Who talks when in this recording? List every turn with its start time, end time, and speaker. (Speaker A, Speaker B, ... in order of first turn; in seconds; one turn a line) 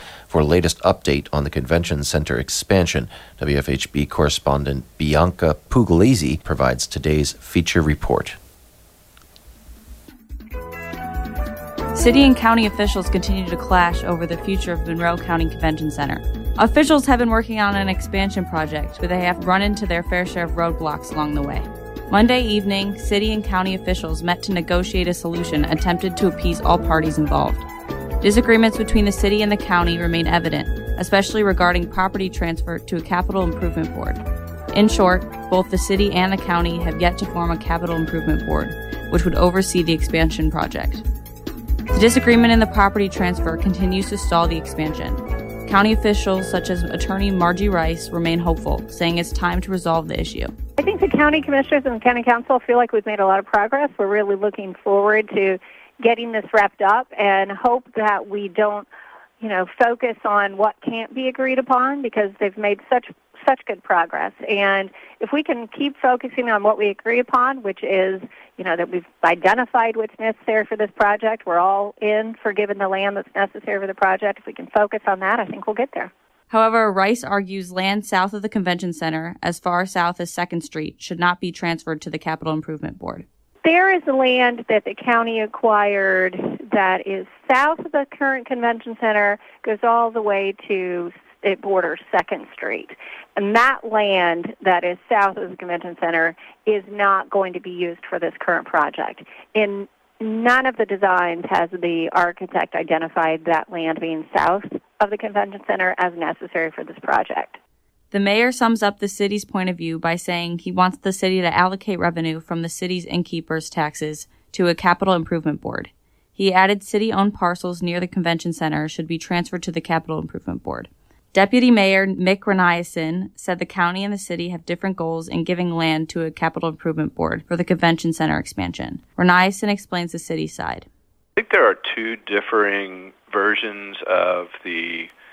Speaker A: 0.3-8.4
Speaker B: 11.9-27.7
Speaker B: 28.2-34.2
Speaker B: 34.7-41.0
Speaker B: 41.9-50.5
Speaker C: 50.8-58.9
Speaker C: 59.4-76.1
Speaker B: 76.5-83.2
Speaker C: 83.6-107.6
Speaker B: 108.1-130.8
Speaker D: 131.4-135.1